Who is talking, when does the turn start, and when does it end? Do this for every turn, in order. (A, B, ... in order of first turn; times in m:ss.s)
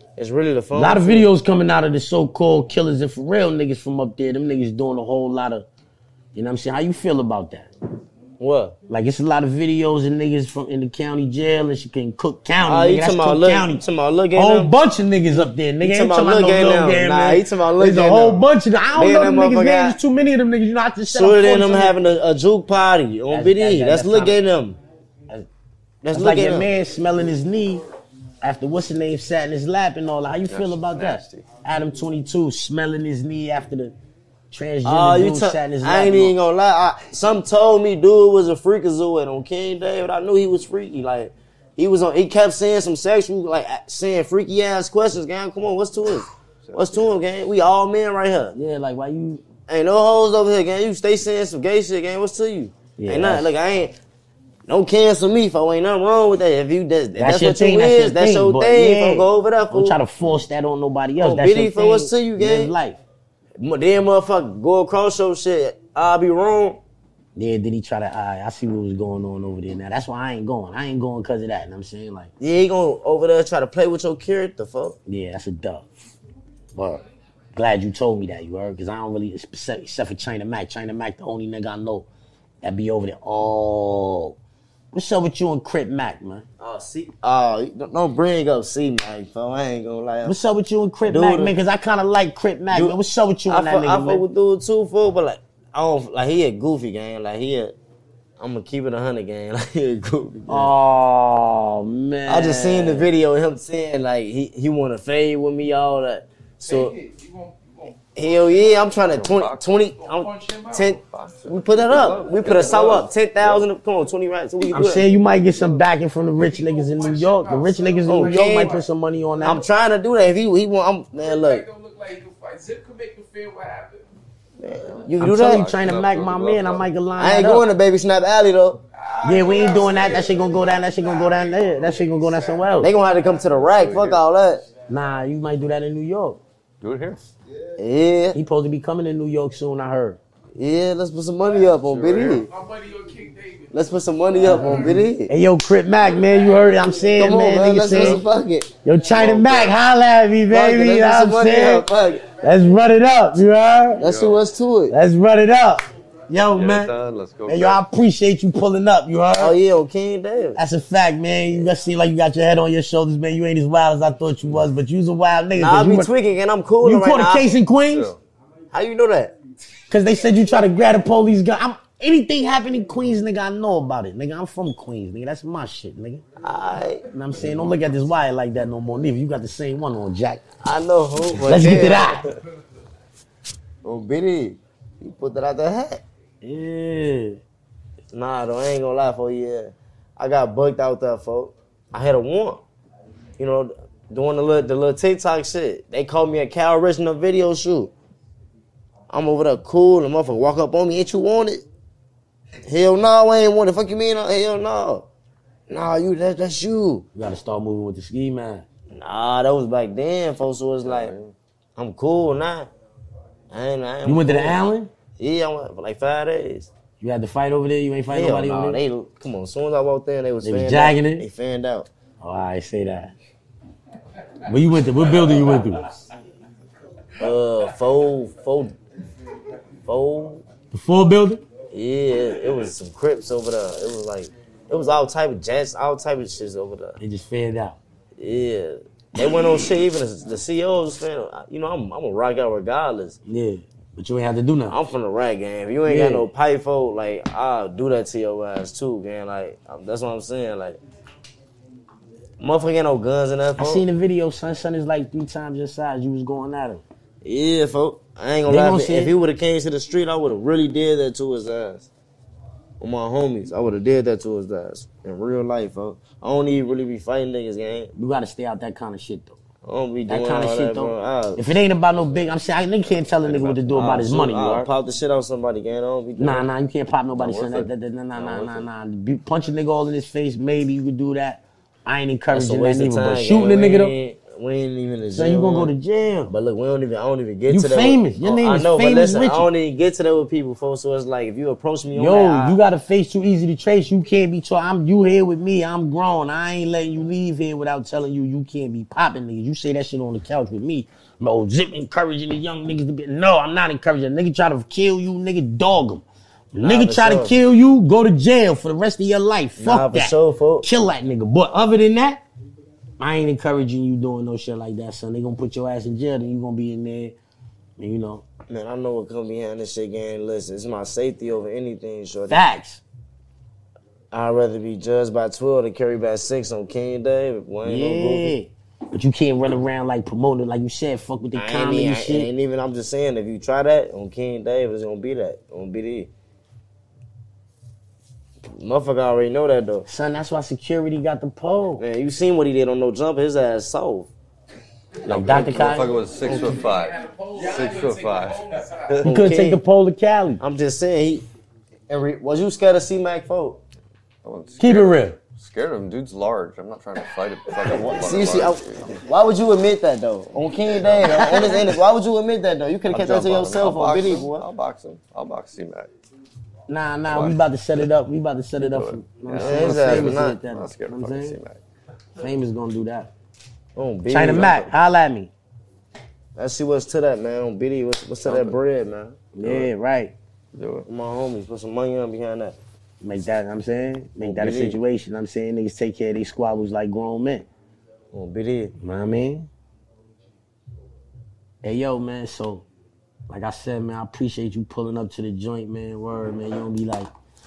0:00.2-0:01.3 A
0:00.7-0:05.6 B
0:06.3-0:07.7 B
0:08.4-0:08.8 A
0:08.9-0:13.8 B
0:12.6-0:14.7 A
0:14.4-0:22.0 B
0:15.8-0:18.4 A
0:19.0-0:20.0 A
0:21.1-0:24.8 A
0:23.3-0:24.4 B
0:26.0-0:26.7 A
0:26.1-0:27.8 B
0:28.4-0:33.9 B
0:30.5-0:31.5 C
0:34.5-0:36.3 B
0:34.8-0:48.6 A
0:46.6-0:47.2 C
0:48.6-0:49.4 B
0:49.7-0:54.0 A
0:53.0-0:53.5 B
0:54.7-1:00.0 A
0:57.2-1:03.0 B
1:01.2-1:02.7 A
1:03.6-1:06.8 A
1:07.4-1:12.3 B
1:12.4-1:15.0 A
1:15.1-1:15.9 B
1:16.8-1:17.0 B
1:17.6-1:22.1 B
1:22.6-1:24.4 B
1:24.9-1:26.5 B
1:26.6-1:30.4 A
1:30.2-1:34.2 B
1:31.1-1:31.5 A
1:32.7-1:33.0 A
1:33.5-1:37.8 A
1:38.4-1:40.7 A
1:40.5-1:43.1 B
1:42.3-1:47.0 A
1:46.6-1:49.1 D
1:48.2-1:55.0 A
1:49.1-1:49.6 C
1:50.0-1:51.0 D
1:50.7-1:53.7 C
1:54.7-1:59.6 B
1:54.7-1:55.8 D
1:56.4-1:59.6 D
1:58.1-1:58.8 A
1:59.4-2:01.6 A
2:01.2-2:04.1 D
2:04.6-2:05.7 A
2:05.2-2:06.9 C
2:05.2-2:07.7 B
2:07.2-2:08.8 A
2:09.0-2:12.9 D
2:09.2-2:12.9 B
2:12.8-2:14.7 A
2:13.5-2:14.2 C
2:14.9-2:16.4 B
2:16.8-2:17.2 C
2:17.8-2:18.4 A
2:18.4-2:20.2 B
2:20.6-2:22.5 A
2:21.7-2:22.4 C
2:22.5-2:23.7 D
2:23.7-2:25.3 A
2:24.3-2:25.0 D
2:25.3-2:28.2 B
2:27.2-2:29.7 A
2:27.9-2:28.2 C
2:28.8-2:34.0 B
2:29.2-2:29.6 C
2:30.5-2:32.3 A
2:34.0-2:35.0 A
2:34.0-2:34.4 C
2:34.9-2:36.9 B
2:36.5-2:37.8 C
2:37.5-2:39.6 B
2:39.4-2:40.6 A
2:40.6-2:46.1 B
2:45.6-2:47.5 A
2:46.8-2:48.2 B
2:47.9-2:48.2 C
2:48.7-2:49.4 A
2:49.9-2:56.2 B
2:56.4-2:57.0 A
2:57.1-3:00.4 B
3:00.6-3:02.2 A
3:01.4-3:02.3 B
3:03.8-3:06.0 A
3:06.4-3:07.4 B
3:08.1-3:12.6 A
3:13.4-3:17.9 A
3:19.1-3:21.6 A
3:22.6-3:25.1 A
3:25.7-3:27.1 A
3:27.2-3:28.6 B
3:28.9-3:31.1 A
3:30.8-3:31.3 C
3:31.8-3:32.7 A
3:33.5-3:34.6 A
3:34.0-3:34.9 B
3:35.2-3:36.7 A
3:37.0-3:38.8 B
3:38.1-3:41.9 A
3:40.4-3:41.2 B
3:42.2-3:43.1 B
3:44.5-3:46.0 B
3:47.2-3:48.8 A
3:49.9-3:50.4 A
3:50.7-3:51.4 B
3:51.7-3:57.0 A
3:57.0-3:57.8 B
3:58.2-4:03.2 A
4:03.3-4:04.8 B
4:04.7-4:10.8 A
4:05.9-4:06.2 B
4:12.4-4:13.8 A
4:13.6-4:16.8 B
4:17.2-4:21.9 A
4:18.5-4:19.1 B
4:22.8-4:27.9 A
4:28.0-4:29.4 B
4:29.6-4:31.4 A
4:30.1-4:34.7 B
4:33.3-4:36.4 A
4:33.3-4:33.9 C
4:36.2-4:43.9 B
4:37.2-4:38.6 C
4:42.3-4:45.7 A
4:45.2-4:46.3 B
4:46.3-4:52.6 A
4:47.5-4:49.5 B
4:51.9-5:12.2 B
5:06.6-5:07.4 A
5:09.6-5:10.7 A
5:13.0-5:17.2 B
5:17.8-5:18.2 B
5:18.5-5:22.4 A
5:22.3-5:22.8 B
5:24.1-5:28.3 A
5:27.6-5:32.3 B
5:31.4-5:36.1 A
5:38.4-5:39.9 A
5:39.9-5:41.8 B
5:41.8-5:44.1 A
5:45.0-5:46.0 B
5:45.0-5:49.1 C
5:45.9-5:49.0 D
5:46.2-5:46.6 A
5:49.0-5:49.6 A
5:49.0-5:50.4 B
5:50.4-5:51.2 A
5:51.9-5:53.6 A
5:54.2-5:59.0 C
5:54.6-5:55.2 B
5:57.7-6:04.5 A
6:00.7-6:01.6 C
6:02.9-6:05.9 C
6:06.7-6:11.4 B
6:07.1-6:07.9 C
6:08.6-6:11.6 C
6:09.4-6:10.4 A
6:12.2-6:13.1 B
6:13.8-6:14.7 A
6:14.1-6:15.3 B
6:16.4-6:19.6 A
6:18.2-6:18.6 C
6:19.4-6:20.1 B
6:20.5-6:20.9 C
6:20.9-6:22.6 A
6:23.0-6:27.5 B
6:24.2-6:24.8 A
6:28.1-6:28.7 A
6:28.8-6:29.5 B
6:31.6-6:32.6 B
6:33.3-6:37.1 B